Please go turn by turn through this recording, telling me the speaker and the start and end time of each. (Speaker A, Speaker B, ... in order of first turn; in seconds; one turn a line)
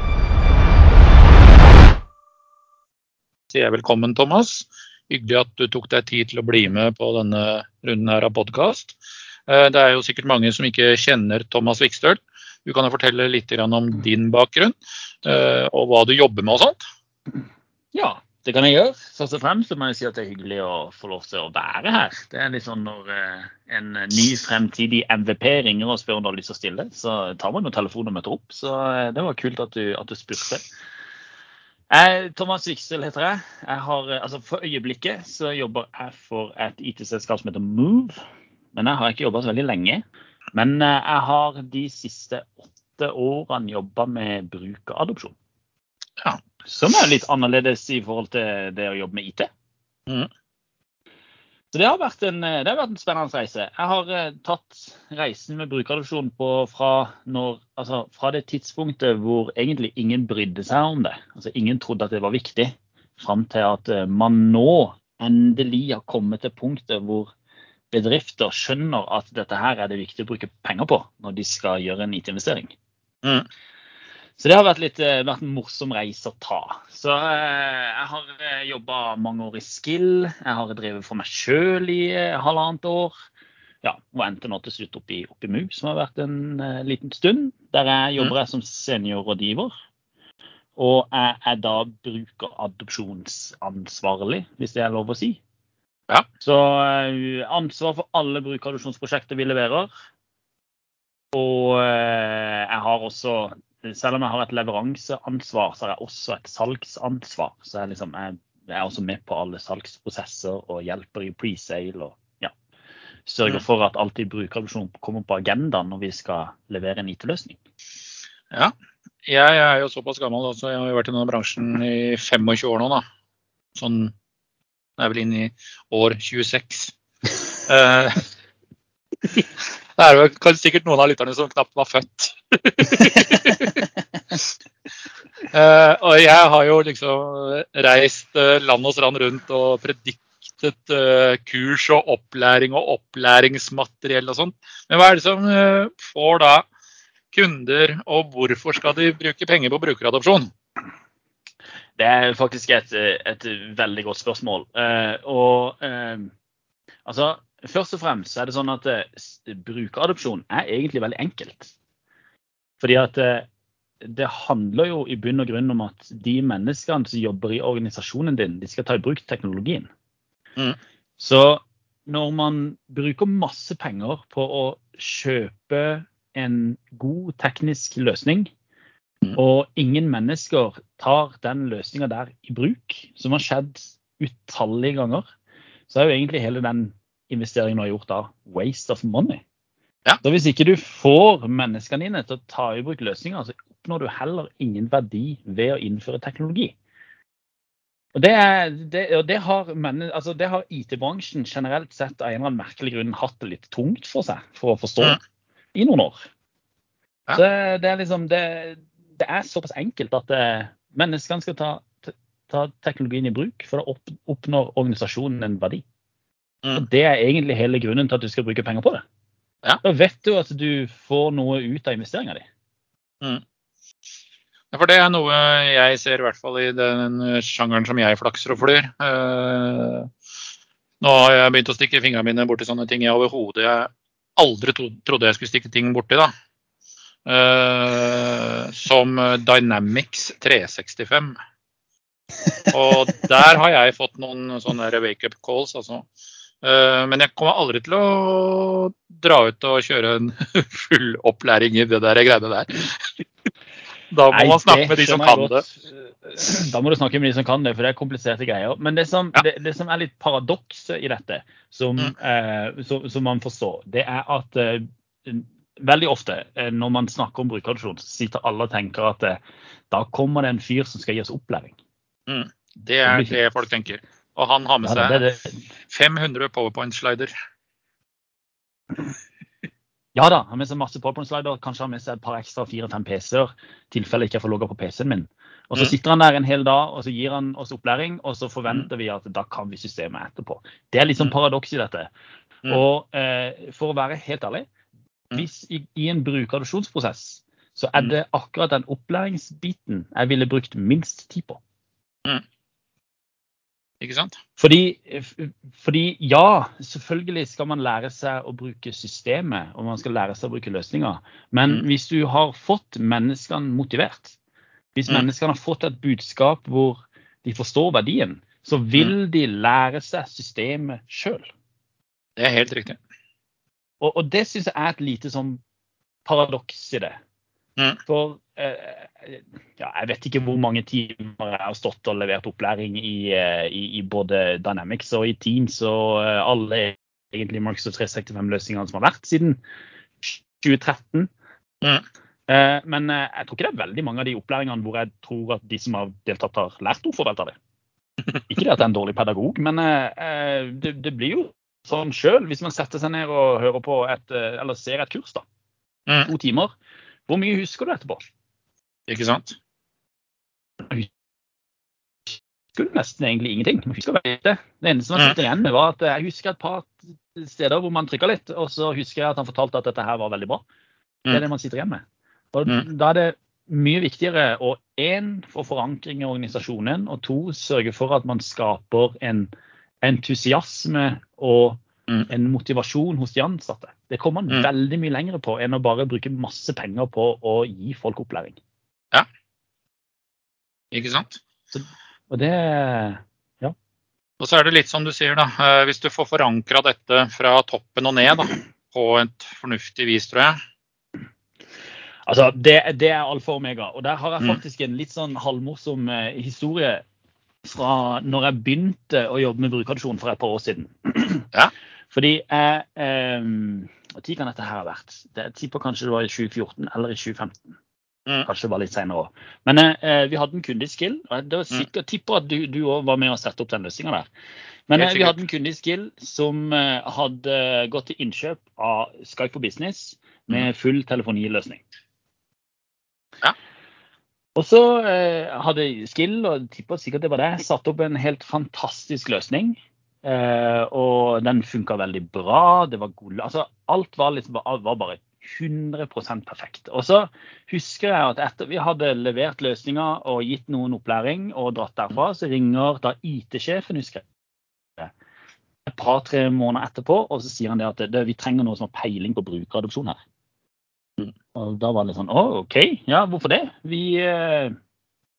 Speaker A: 3.5-8.9
Speaker A: 9.5-16.8
Speaker B: 17.9-30.6
Speaker B: 31.9-38.2
Speaker B: 38.7-40.0
Speaker B: 40.5-45.3
Speaker B: 46.6-49.5
Speaker B: 51.7-67.3
Speaker B: 67.9-72.7
Speaker B: 74.4-83.1
Speaker B: 83.8-89.7
Speaker B: 90.8-95.4
Speaker B: 96.4-99.9
Speaker B: 101.3-112.5
Speaker B: 113.2-117.6
Speaker A: 119.2-123.0
Speaker A: 123.8-124.1
Speaker A: 125.0-126.9
Speaker A: 127.7-128.3
Speaker A: 129.4-134.5
Speaker A: 135.5-146.7
Speaker A: 147.3-150.5
Speaker B: 152.0-156.3
Speaker B: 157.1-161.7
Speaker B: 162.8-163.5
Speaker B: 164.0-169.9
Speaker B: 171.2-178.5
Speaker B: 179.3-185.2
Speaker B: 185.9-189.4
Speaker B: 190.2-196.7
Speaker B: 198.2-205.2
Speaker B: 205.8-206.2
Speaker B: 207.3-215.8
Speaker B: 216.7-219.0
Speaker B: 219.8-222.4
Speaker A: 224.7-230.1
Speaker A: 231.0-236.3
Speaker A: 237.3-241.3
Speaker A: 242.7-246.1
Speaker A: 246.6-253.0
Speaker A: 254.1-255.6
Speaker B: 254.3-271.8
Speaker A: 272.3-275.2
Speaker B: 273.1-273.4
Speaker B: 274.8-275.5
Speaker A: 275.9-277.3
Speaker B: 280.1-292.1
Speaker B: 292.7-294.7
Speaker B: 295.3-301.6
Speaker A: 304.0-304.4
Speaker B: 304.6-314.4
Speaker B: 314.9-321.5
Speaker A: 322.4-323.0
Speaker B: 324.0-325.6
Speaker B: 326.2-327.2
Speaker B: 328.1-339.6
Speaker B: 340.2-341.3
Speaker B: 342.5-347.6
Speaker B: 348.5-355.4
Speaker B: 356.2-356.7
Speaker B: 357.3-358.3
Speaker A: 359.1-359.6
Speaker B: 362.3-370.6
Speaker B: 371.3-372.0
Speaker B: 372.5-379.5
Speaker B: 380.0-388.6
Speaker A: 390.9-391.4
Speaker B: 391.7-393.8
Speaker A: 394.4-400.6
Speaker B: 402.3-407.0
Speaker B: 407.6-411.5
Speaker B: 412.1-417.6
Speaker B: 418.4-424.3
Speaker B: 424.9-431.8
Speaker A: 425.0-425.4
Speaker B: 434.6-454.2
Speaker B: 455.9-460.2
Speaker B: 461.5-464.8